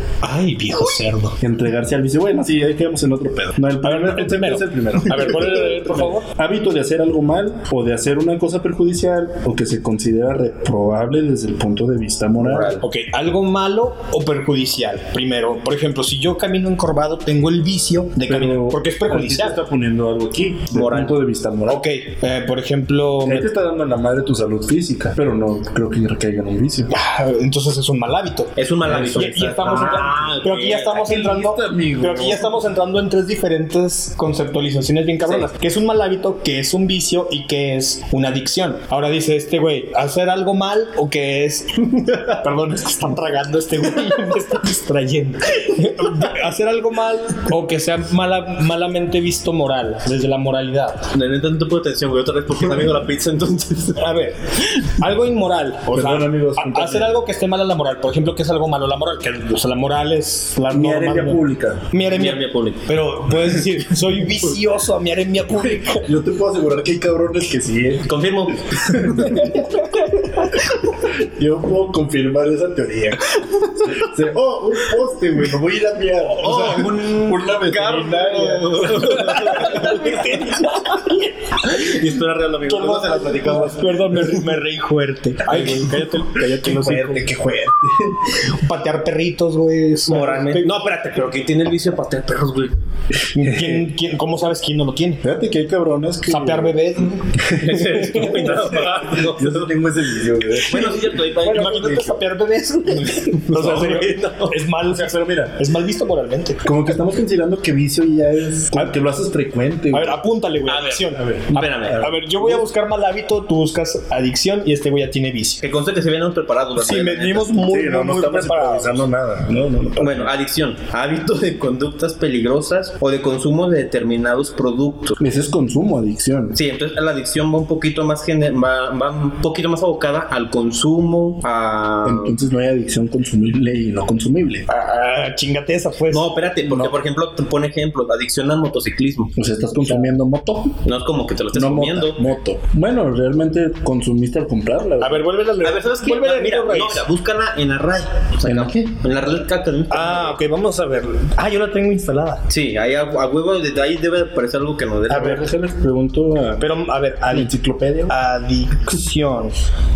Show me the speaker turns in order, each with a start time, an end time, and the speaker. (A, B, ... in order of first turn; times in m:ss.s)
0:00.2-0:01.4 A
0:01.4-0:12.8 B
0:03.8-0:06.3 A
0:12.4-0:12.8 C
0:12.8-0:19.6 A
0:18.3-0:21.8 B
0:20.7-0:21.2 C
0:21.7-0:23.5 A
0:23.2-0:26.9 B
0:26.9-0:51.1 A
0:28.6-0:31.1 C
0:28.8-0:30.1 B
0:31.0-0:32.5 B
0:42.1-0:42.4 C
0:51.1-0:54.0 C
0:54.0-1:06.1 A
0:55.9-0:57.2 B
1:00.7-1:01.9 B
1:02.1-1:03.5 C
1:05.9-1:08.1 B
1:08.0-1:09.6 C
1:08.7-1:09.9 B
1:10.9-1:13.3 B
1:13.6-1:14.0 C
1:13.8-1:20.0 B
1:16.4-1:21.0 C
1:18.8-1:22.0 A
1:21.6-1:24.4 C
1:22.7-1:30.8 A
1:22.8-1:23.6 B
1:25.5-1:28.4 B
1:30.1-1:32.7 C
1:33.3-1:35.2 A
1:33.4-1:33.9 B
1:35.2-1:36.8 B
1:36.3-1:38.6 A
1:37.4-1:42.2 B
1:37.5-1:39.8 C
1:40.6-1:42.1 C
1:40.7-1:46.8 A
1:43.0-1:44.6 C
1:43.5-1:44.0 B
1:44.8-1:45.6 B
1:46.6-1:50.2 B
1:49.9-1:55.6 A
1:50.7-1:52.1 C
1:51.1-1:52.6 B
1:55.6-1:57.6 C
1:56.8-1:59.0 A
1:57.6-2:00.3 B
2:00.0-2:05.2 C
2:05.2-2:06.6 B
2:06.5-2:12.4 C
2:12.0-2:14.7 B
2:14.7-2:16.3 A
2:16.1-2:19.3 C
2:16.7-2:16.9 B
2:19.4-2:20.8 B
2:20.8-2:22.2 C
2:21.5-2:25.3 B
2:25.0-2:27.0 A
2:25.6-2:30.4 C
2:28.4-2:28.9 B
2:29.9-2:32.4 A
2:32.5-2:35.5 C
2:35.1-2:36.7 B
2:36.6-2:37.5 A
2:37.3-2:38.1 B
2:38.1-2:39.6 A